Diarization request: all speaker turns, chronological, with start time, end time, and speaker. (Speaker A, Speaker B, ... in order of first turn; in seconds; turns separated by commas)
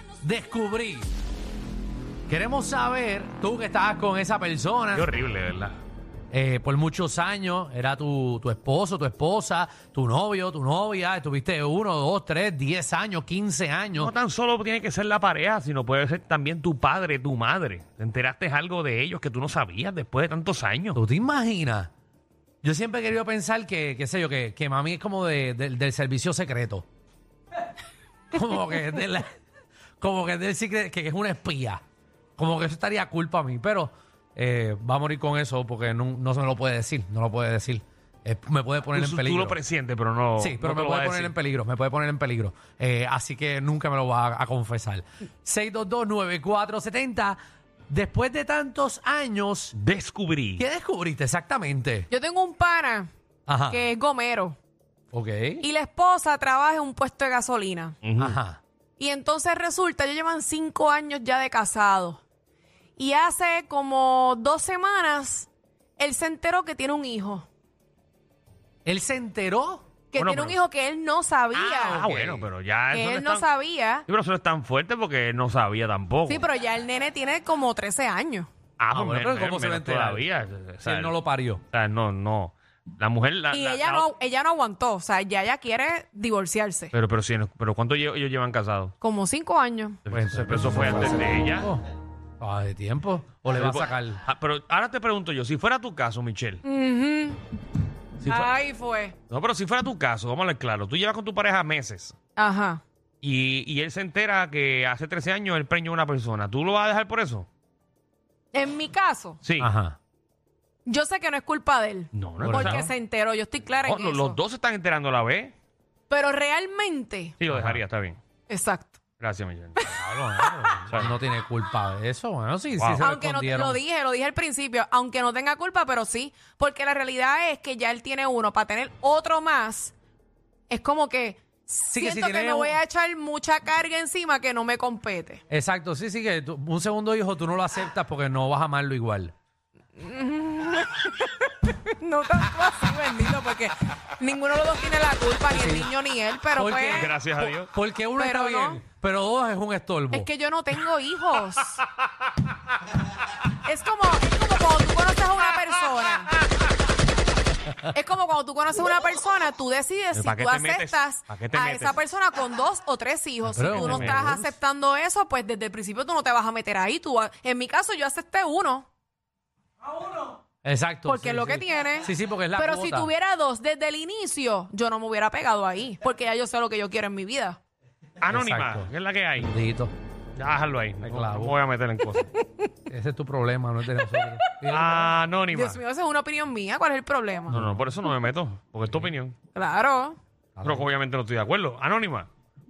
Speaker A: 0.2-1.1, Speaker A: 2.3-5.1, Speaker B: 4.9-5.8, Speaker A: 6.3-14.1, Speaker B: 14.0-21.0, Speaker A: 21.0-21.9, Speaker A: 22.6-26.9, Speaker A: 28.3-29.3, Speaker A: 30.0-31.8, Speaker A: 32.4-39.6, Speaker B: 38.9-41.4, Speaker A: 40.4-47.4, Speaker A: 47.9-49.7, Speaker B: 49.7-50.6, Speaker A: 50.6-52.1, Speaker C: 52.1-53.1, Speaker A: 53.5-53.9, Speaker C: 53.7-54.6, Speaker A: 55.1-55.6, Speaker C: 55.6-58.0, Speaker B: 58.0-58.4, Speaker A: 58.2-58.6, Speaker C: 59.0-62.2, Speaker C: 63.0-67.5, Speaker A: 68.8-69.9, Speaker C: 70.1-72.1, Speaker B: 70.2-70.6, Speaker B: 71.5-73.5, Speaker A: 71.9-72.5, Speaker C: 72.9-74.0, Speaker B: 74.1-76.5, Speaker C: 76.3-78.5, Speaker B: 78.8-81.1, Speaker A: 78.9-80.3, Speaker A: 80.8-81.6, Speaker B: 81.7-84.1, Speaker C: 83.5-86.9, Speaker B: 86.9-88.9, Speaker C: 89.0-90.0, Speaker B: 90.1-91.7, Speaker A: 90.1-91.8, Speaker A: 92.4-94.2, Speaker B: 93.5-96.6, Speaker C: 96.6-97.4, Speaker B: 98.2-98.5, Speaker C: 98.2-99.2, Speaker B: 99.3-102.2, Speaker C: 102.4-102.8, Speaker B: 103.2-107.5, Speaker C: 108.5-109.4, Speaker B: 109.4-109.7, Speaker A: 109.6-110.0, Speaker C: 110.9-114.4, Speaker B: 112.1-112.9, Speaker A: 112.4-112.9, Speaker B: 113.8-115.5, Speaker C: 116.1-117.4, Speaker B: 117.4-118.2, Speaker A: 117.5-117.8, Speaker C: 118.5-119.0, Speaker B: 119.2-119.9, Speaker C: 119.8-120.7, Speaker A: 119.9-123.8, Speaker B: 120.8-121.1, Speaker B: 122.8-123.1, Speaker C: 123.0-129.9, Speaker C: 130.7-135.4, Speaker A: 131.9-132.8, Speaker A: 135.5-139.3, Speaker C: 140.0-147.1, Speaker A: 145.5-145.9, Speaker A: 146.5-150.3, Speaker B: 146.8-147.7, Speaker C: 148.2-148.8, Speaker C: 150.1-151.8, Speaker C: 153.6-156.3, Speaker C: 157.9-168.9, Speaker B: 160.2-162.0, Speaker A: 163.5-164.5, Speaker B: 163.7-164.4, Speaker A: 170.6-173.1, Speaker C: 171.1-177.6, Speaker B: 178.2-179.5, Speaker A: 178.3-179.9, Speaker B: 180.4-182.3, Speaker A: 181.0-181.6, Speaker A: 182.9-185.1, Speaker B: 184.7-185.8, Speaker C: 185.5-187.5, Speaker B: 187.5-189.4, Speaker A: 187.5-187.8, Speaker C: 189.6-190.2, Speaker A: 190.6-190.9, Speaker B: 190.6-192.3